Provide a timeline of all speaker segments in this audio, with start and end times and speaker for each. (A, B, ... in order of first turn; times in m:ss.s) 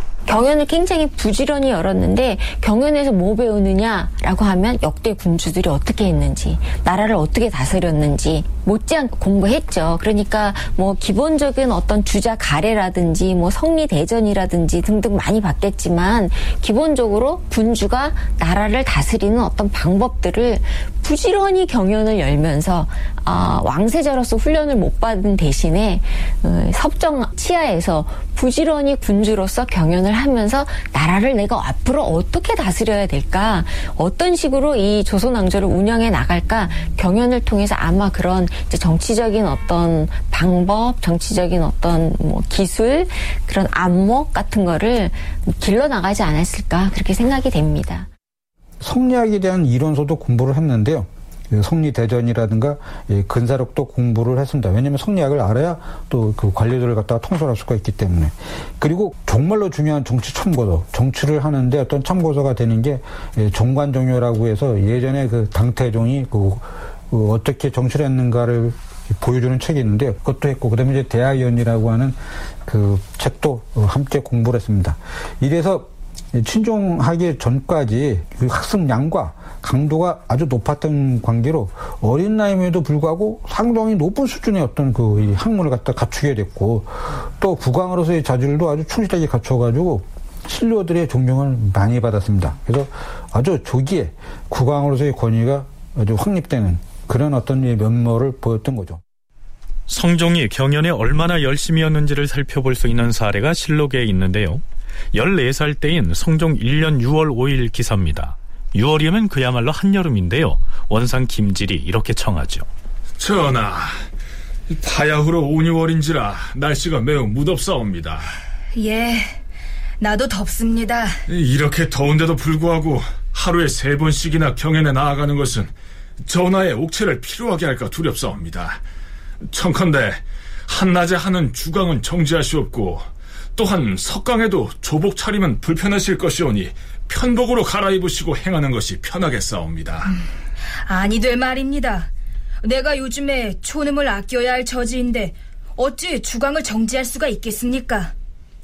0:00.3-0:48.1 A
0:48.8-1:39.0 B
1:39.9-1:44.6 C
1:45.1-1:52.7 C
1:53.2-1:54.0 D
1:54.7-1:58.3 D
1:58.7-1:59.4 E
2:00.0-2:01.2 E
2:01.3-2:08.8 D
2:09.4-2:20.1 D
2:20.8-2:22.1 E
2:22.6-2:28.1 E